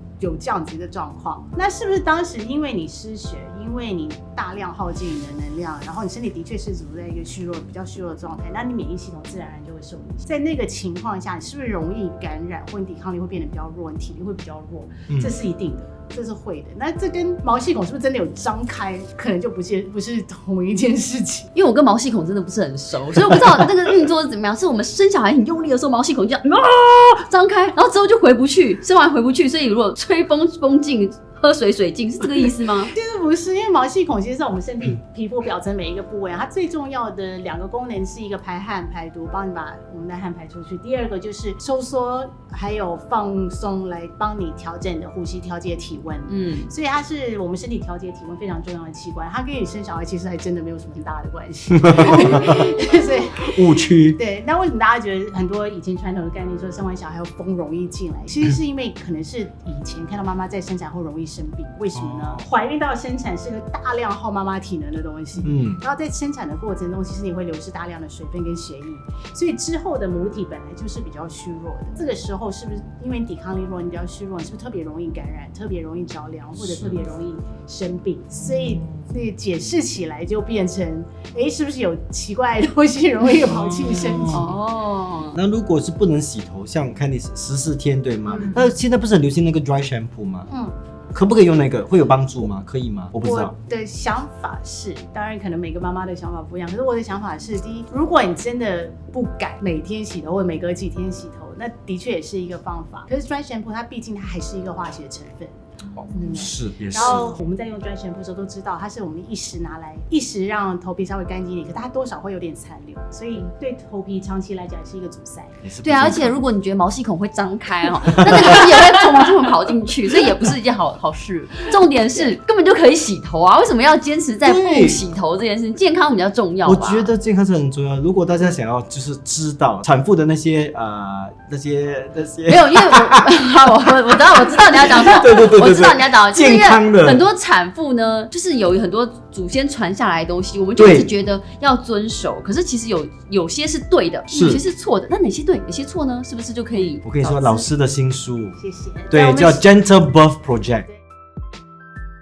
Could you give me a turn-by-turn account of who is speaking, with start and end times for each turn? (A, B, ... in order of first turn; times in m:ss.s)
0:00.2-0:21.5 A
0:21.5-0:32.9 B
0:32.9-1:24.5 A
0:46.3-0:46.7 B
0:51.8-0:52.7 C
0:53.4-0:54.2 C
1:02.0-1:02.4 C
1:05.4-1:05.8 C
1:16.6-1:17.0 C
1:18.4-1:19.2 C
1:23.5-1:24.6 C
1:24.3-1:25.4 B
1:25.4-1:30.5 C
1:30.5-1:30.8 A
1:31.1-1:33.5 C
1:33.2-1:45.6 A
1:46.0-1:47.4 C
1:46.1-1:55.6 A
1:55.6-1:56.4 C
1:55.8-2:07.1 B
1:58.0-1:58.8 C
2:04.4-2:05.0 C
2:06.6-2:17.2 C
2:12.5-2:27.6 B
2:20.8-2:21.1 C
2:24.3-2:24.6 C
2:27.0-2:30.9 C
2:28.6-2:29.6 A